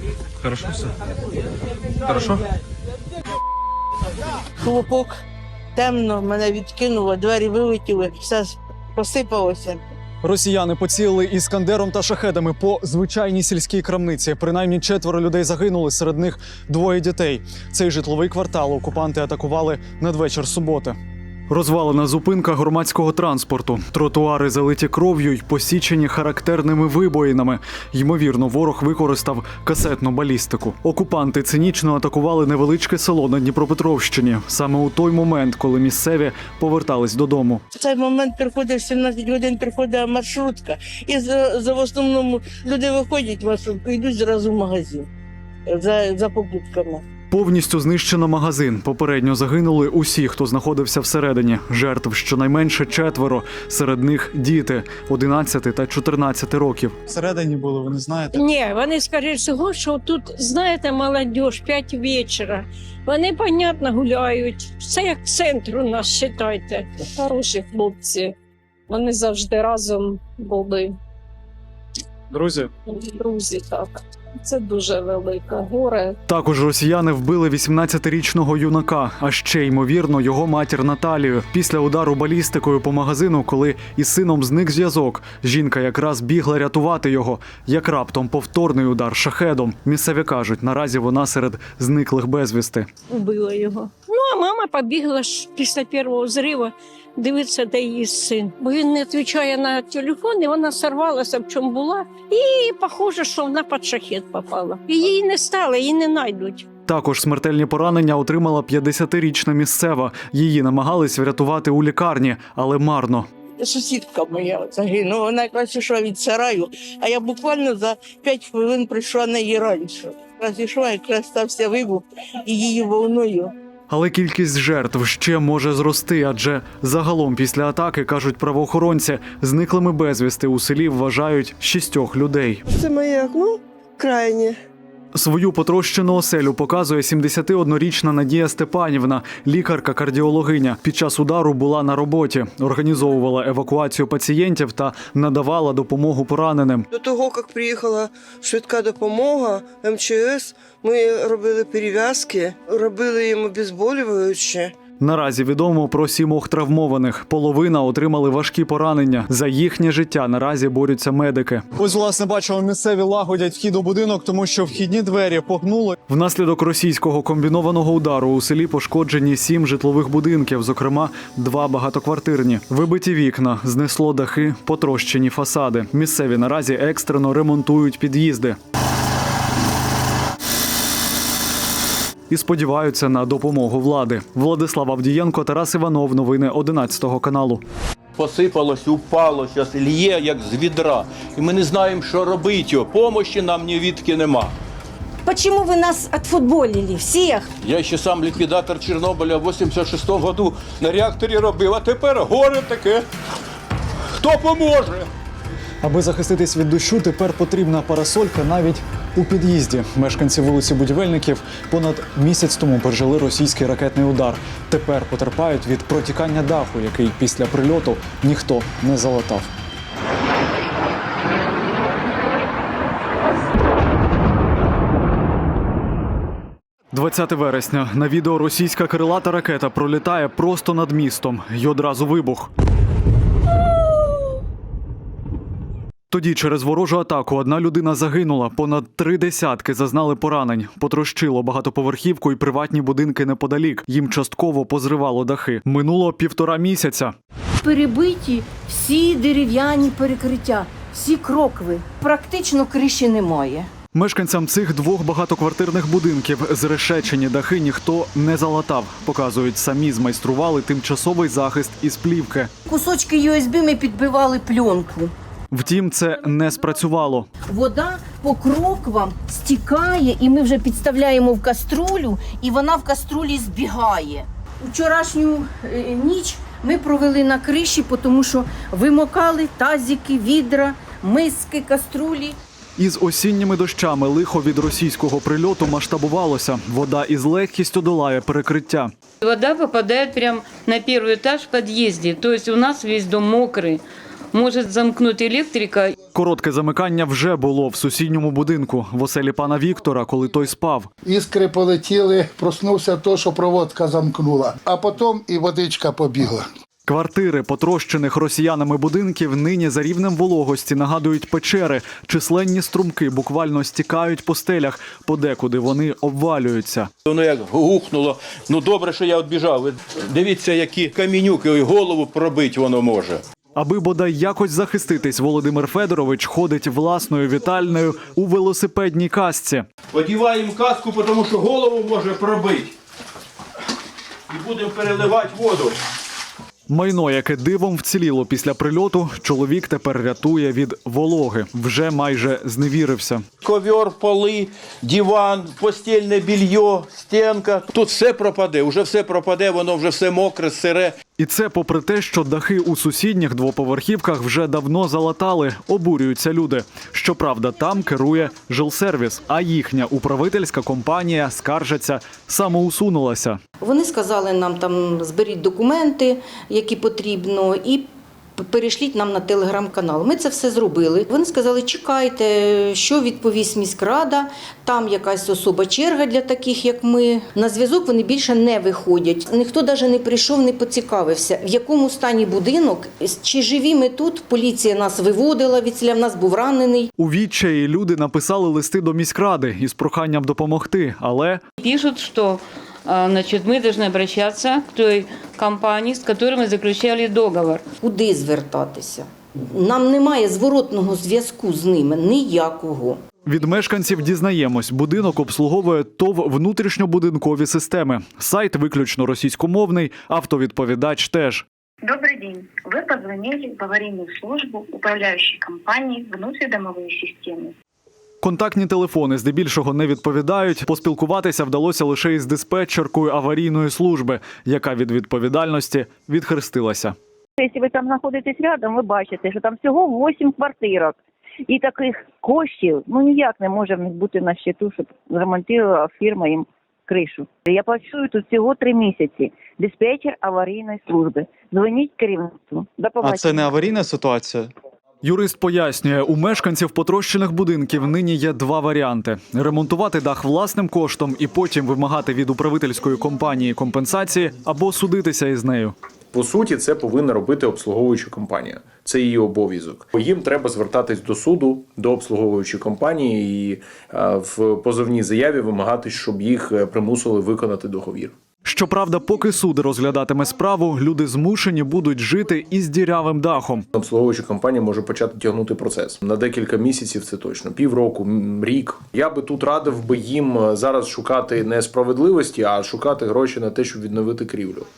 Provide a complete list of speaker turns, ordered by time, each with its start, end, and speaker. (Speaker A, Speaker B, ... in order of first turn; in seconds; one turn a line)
Speaker A: 4.6-5.1
Speaker A: 5.8-9.8
Speaker B: 10.2-21.0
Speaker B: 21.5-37.6
Speaker A: 37.7-45.1
Speaker A: 45.7-47.0
Speaker B: 47.3-58.4
Speaker C: 58.3-68.3
Speaker C: 68.9-71.0
Speaker B: 72.3-72.7
Speaker C: 72.9-76.2
Speaker B: 76.3-92.9
Speaker C: 93.1-106.7
Speaker B: 106.9-113.3
Speaker A: 113.6-123.5
Speaker B: 123.9-132.6
Speaker D: 132.7-134.6
Speaker B: 135.1-146.9
Speaker D: 146.9-154.7
Speaker B: 155.0-178.6
Speaker B: 182.3-187.6
Speaker E: 188.2-194.5
Speaker E: 197.7-203.1
Speaker E: 204.2-205.1
Speaker B: 205.8-219.5
Speaker B: 226.9-232.5
Speaker B: 236.1-247.1
Speaker F: 247.6-253.7
Speaker B: 253.9-262.5
Speaker F: 262.7-265.1
Speaker B: 265.5-267.3
Speaker F: 267.5-282.4
Speaker B: 282.8-288.9
Speaker G: 289.2-296.0
Speaker B: 296.1-300.9
Speaker H: 301.1-306.5
Speaker B: 306.9-316.9
Speaker E: 317.1-323.2
Speaker B: 323.6-329.6
Speaker E: 329.9-332.7
Speaker E: 334.3-335.8
Speaker B: 336.7-343.2
Speaker E: 343.4-350.9
Speaker B: 351.2-363.4
Speaker F: 363.6-386.9
Speaker B: 387.0-391.4
Speaker G: 391.6-397.6
Speaker F: 397.8-403.0
Speaker B: 403.3-411.4
Speaker I: 411.8-417.5
Speaker B: 418.2-426.9
Speaker J: 427.4-430.9
Speaker J: 431.5-443.5
Speaker B: 443.0-444.5
Speaker B: 445.0-455.8
Speaker K: 456.1-468.1
Speaker B: 468.4-473.7
Speaker K: 473.8-484.7